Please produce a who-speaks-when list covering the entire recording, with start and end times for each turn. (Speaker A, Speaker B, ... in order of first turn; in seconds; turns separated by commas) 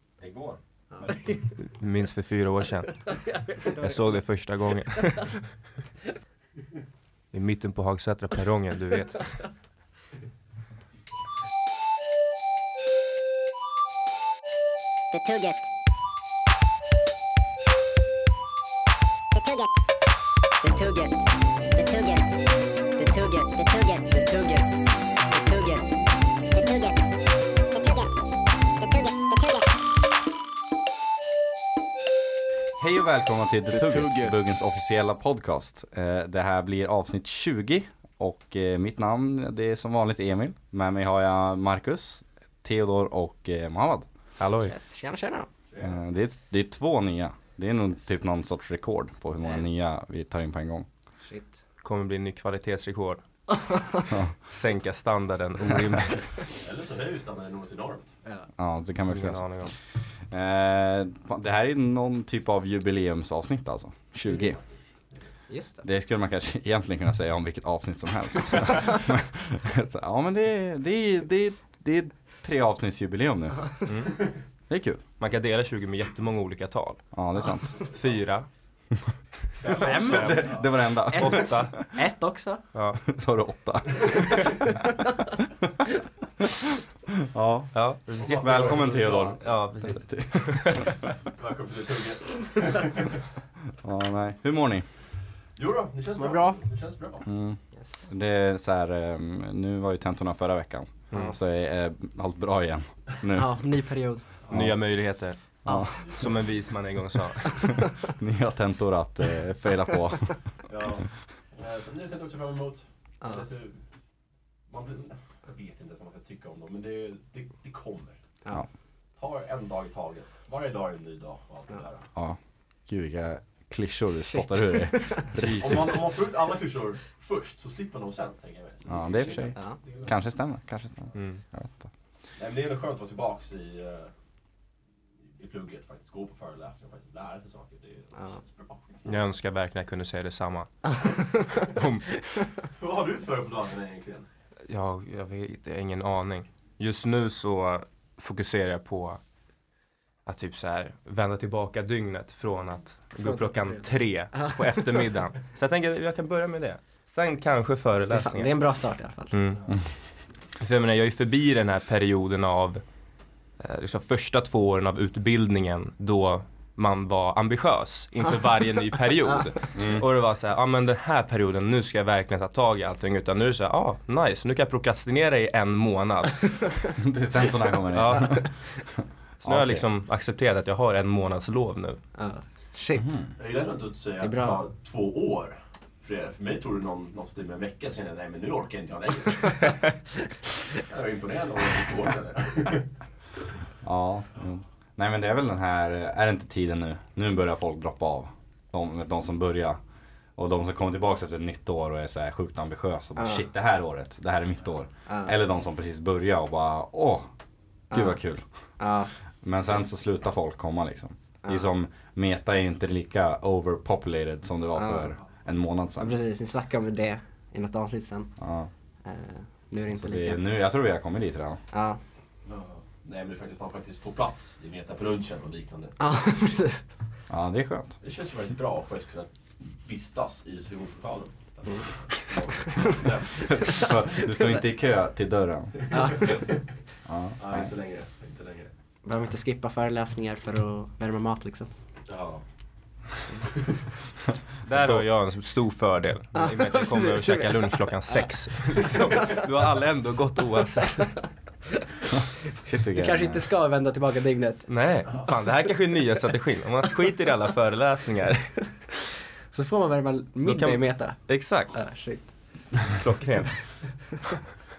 Speaker A: 0.2-1.4, Speaker B: 0.9-1.7, Speaker C: 1.7-5.6, Speaker B: 3.0-4.1, Speaker C: 7.3-9.4, Speaker D: 15.1-15.7, Speaker D: 19.3-19.7, Speaker D: 20.6-22.4, Speaker D: 23.0-24.7, Speaker D: 25.3-25.9, Speaker D: 26.5-27.1, Speaker D: 27.7-28.1, Speaker D: 28.8-29.7, Speaker A: 32.8-44.1, Speaker C: 44.4-44.7, Speaker B: 44.6-45.5, Speaker E: 45.7-46.0, Speaker A: 45.8-50.9, Speaker B: 51.3-51.5, Speaker C: 51.8-53.5, Speaker A: 54.1-54.3, Speaker C: 54.5-56.5, Speaker E: 56.5-58.1, Speaker A: 58.6-64.6, Speaker C: 59.1-59.7, Speaker E: 64.2-65.2, Speaker B: 65.5-65.8, Speaker A: 65.8-73.8, Speaker C: 73.8-74.2, Speaker A: 74.7-75.0, Speaker C: 75.2-77.1, Speaker A: 77.1-77.9, Speaker C: 77.9-79.0, Speaker E: 79.6-80.6, Speaker A: 79.7-81.8, Speaker B: 79.8-82.6, Speaker C: 79.8-80.4, Speaker C: 81.1-81.9, Speaker C: 82.7-83.0, Speaker A: 83.0-84.6, Speaker A: 87.3-91.0, Speaker C: 87.7-90.8, Speaker E: 88.2-89.6, Speaker E: 91.2-93.2, Speaker A: 93.8-94.9, Speaker E: 95.5-97.3, Speaker B: 96.2-96.6, Speaker A: 97.2-104.0, Speaker B: 103.3-104.2, Speaker C: 104.5-107.8, Speaker A: 104.5-106.2, Speaker B: 105.6-106.0, Speaker E: 106.0-106.2, Speaker A: 108.0-110.7, Speaker E: 110.7-113.9, Speaker E: 114.7-118.2, Speaker E: 119.2-122.1, Speaker A: 122.1-126.0, Speaker B: 124.3-125.4, Speaker E: 125.5-130.1, Speaker A: 128.9-131.9, Speaker C: 131.1-131.4, Speaker E: 132.3-134.1, Speaker E: 135.3-139.2, Speaker C: 139.0-142.5, Speaker E: 142.8-144.2, Speaker C: 144.7-149.2, Speaker C: 150.2-176.9, Speaker B: 153.2-154.6, Speaker B: 158.1-159.3, Speaker A: 159.7-160.0, Speaker A: 169.7-170.1, Speaker A: 177.0-178.8, Speaker C: 177.9-178.7, Speaker C: 179.4-182.0, Speaker A: 179.4-179.8, Speaker B: 182.2-183.2, Speaker A: 183.0-183.3, Speaker E: 183.4-189.9, Speaker B: 184.2-184.6, Speaker E: 190.8-192.9, Speaker A: 193.8-199.8, Speaker A: 200.3-207.3, Speaker B: 203.2-203.4, Speaker B: 205.1-205.3, Speaker B: 207.9-208.2, Speaker A: 207.9-208.8, Speaker B: 208.8-209.1, Speaker A: 209.4-216.2, Speaker B: 214.8-215.1, Speaker B: 216.0-218.5, Speaker A: 218.4-218.7, Speaker B: 219.0-220.4, Speaker A: 220.0-221.6, Speaker B: 221.7-222.0, Speaker E: 222.4-226.0, Speaker B: 226.0-226.9, Speaker A: 227.3-228.0, Speaker E: 228.0-233.9, Speaker B: 233.6-234.6, Speaker A: 233.6-236.2, Speaker B: 235.9-236.5, Speaker E: 235.9-236.8, Speaker A: 237.1-237.7, Speaker E: 237.4-238.7, Speaker B: 239.0-241.7, Speaker E: 242.1-243.0, Speaker C: 244.6-251.4, Speaker A: 244.8-245.0, Speaker B: 246.3-249.4, Speaker A: 252.6-253.5, Speaker B: 252.9-255.6, Speaker C: 254.7-258.9, Speaker B: 259.5-262.8, Speaker C: 260.4-261.8, Speaker C: 262.9-264.1